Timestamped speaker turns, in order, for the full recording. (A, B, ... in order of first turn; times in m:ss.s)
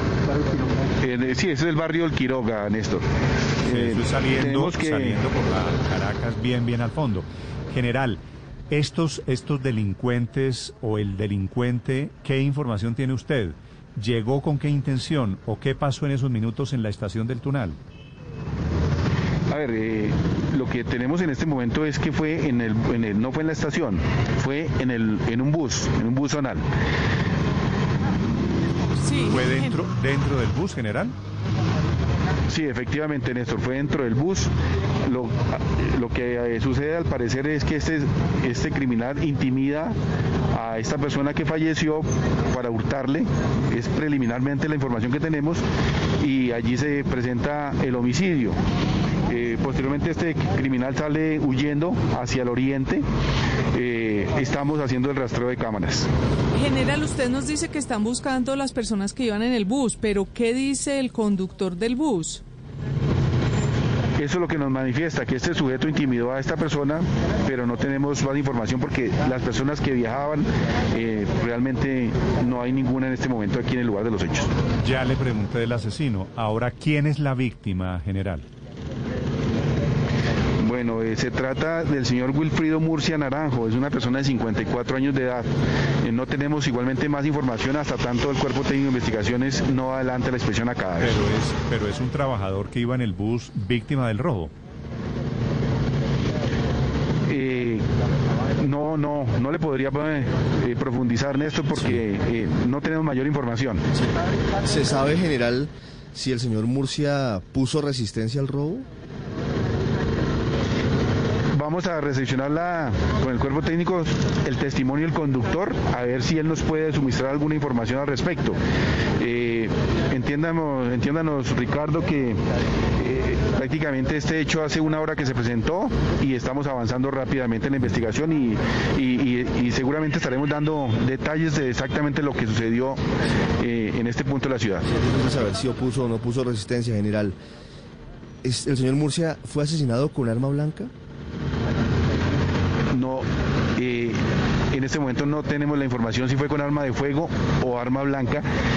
0:01.0-0:03.0 A
0:03.6-0:05.2 A
0:03.6-0:17.8 B
0:19.5-0:26.6 A
0:29.0-0:29.8 C
0:29.3-0:31.1 B
0:32.5-0:34.5 A
0:35.0-0:40.0 A
0:40.5-0:45.6 A
0:46.2-0:48.6 A
0:49.3-0:53.0 A
0:53.7-0:56.1 A
0:56.5-1:02.4 C
1:04.2-1:14.5 A
1:14.8-1:18.4 B
1:20.6-1:25.5 A
1:26.0-1:31.1 A
1:31.0-1:34.5 B
1:37.3-1:37.8 A
1:38.6-1:43.8 A
1:44.6-1:48.8 D
1:51.5-1:58.6 A
1:59.2-2:02.4 A
2:03.0-2:13.0 A
2:13.6-2:14.8 A
2:14.9-2:17.4 D
2:18.4-2:20.9 D
2:22.9-2:23.2 A
2:23.8-2:24.2 A
2:24.7-2:28.5 A